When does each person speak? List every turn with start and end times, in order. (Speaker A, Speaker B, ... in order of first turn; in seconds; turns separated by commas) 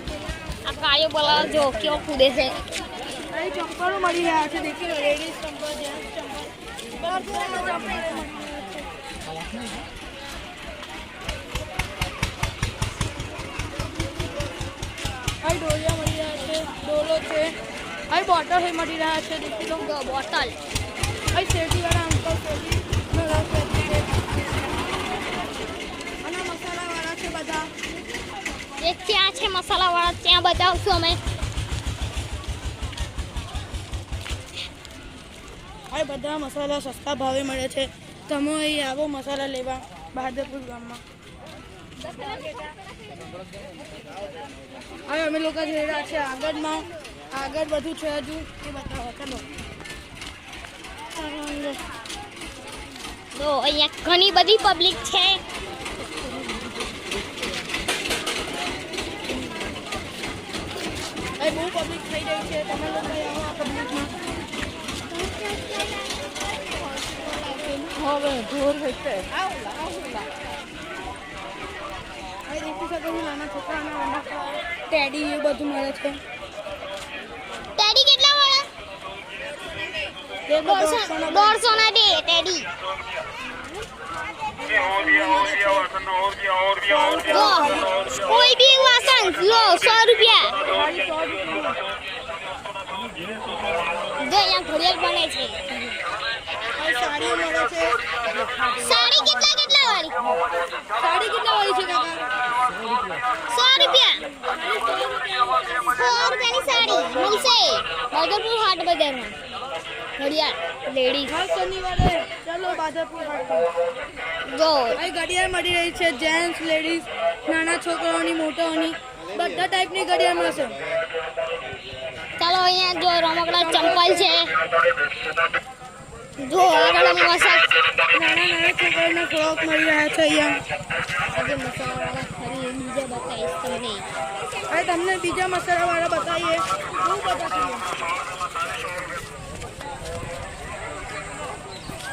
Speaker A: 0.6-2.6, Speaker B: 3.3-8.9, Speaker B: 15.4-17.5, Speaker B: 18.1-19.9, Speaker A: 19.8-20.6, Speaker B: 21.3-24.3, Speaker B: 26.2-27.7, Speaker A: 28.8-31.2, Speaker B: 35.9-41.0, Speaker B: 45.0-49.4, Speaker A: 51.1-51.8, Speaker A: 53.3-55.4, Speaker A: 59.3-59.7, Speaker B: 61.4-64.1, Speaker A: 65.2-65.9, Speaker A: 67.1-68.1, Speaker B: 72.5-76.2, Speaker A: 77.8-78.7, Speaker B: 80.5-81.6, Speaker A: 80.6-82.7, Speaker B: 84.6-85.9, Speaker B: 86.8-88.1, Speaker A: 87.3-90.5, Speaker B: 90.6-91.8, Speaker A: 94.2-95.6, Speaker B: 96.8-97.9, Speaker A: 98.7-100.2, Speaker B: 101.0-102.2, Speaker A: 103.5-104.2, Speaker B: 104.5-105.9, Speaker A: 105.8-109.3, Speaker B: 106.8-107.4, Speaker A: 110.2-111.3, Speaker B: 111.3-113.7, Speaker A: 114.4-115.0, Speaker B: 114.9-120.8, Speaker A: 122.4-124.5, Speaker B: 123.6-124.2, Speaker A: 126.4-127.7, Speaker B: 128.1-130.6, Speaker A: 131.3-134.1, Speaker B: 134.7-137.8